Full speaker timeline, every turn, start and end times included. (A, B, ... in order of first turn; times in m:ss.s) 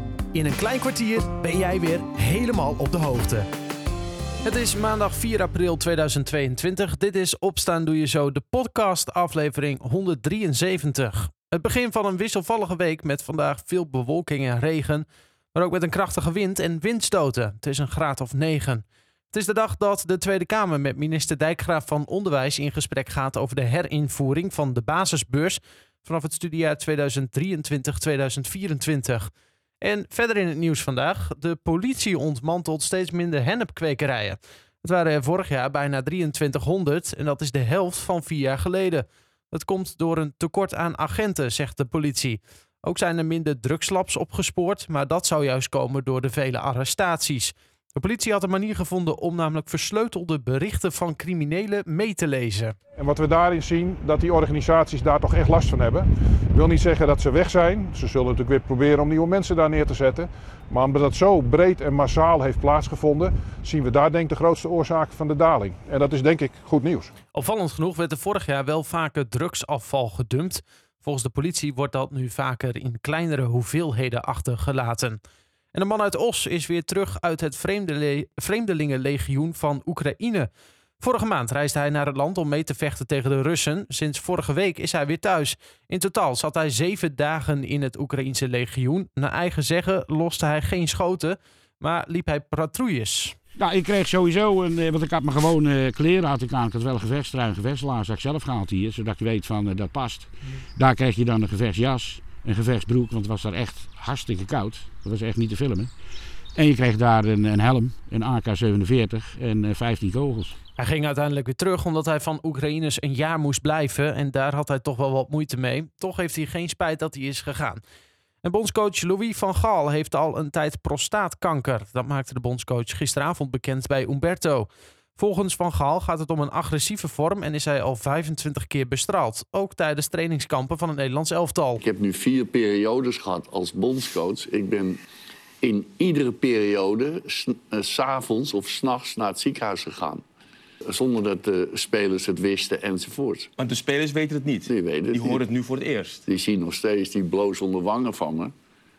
0:00.3-0:03.4 A
0:04.4-0:29.3 A
0:29.8-0:52.7 A
0:53.0-1:07.1 B
1:07.3-1:15.2 A
1:15.7-1:33.4 A
1:33.6-1:45.9 C
1:46.5-1:50.6 C
1:50.8-1:57.8 A
1:58.4-2:11.8 A
2:11.8-2:15.0 D
2:15.6-2:20.2 D
2:20.9-2:23.5 D
2:23.6-2:26.2 E
2:24.6-2:25.4 D
2:26.2-2:28.5 D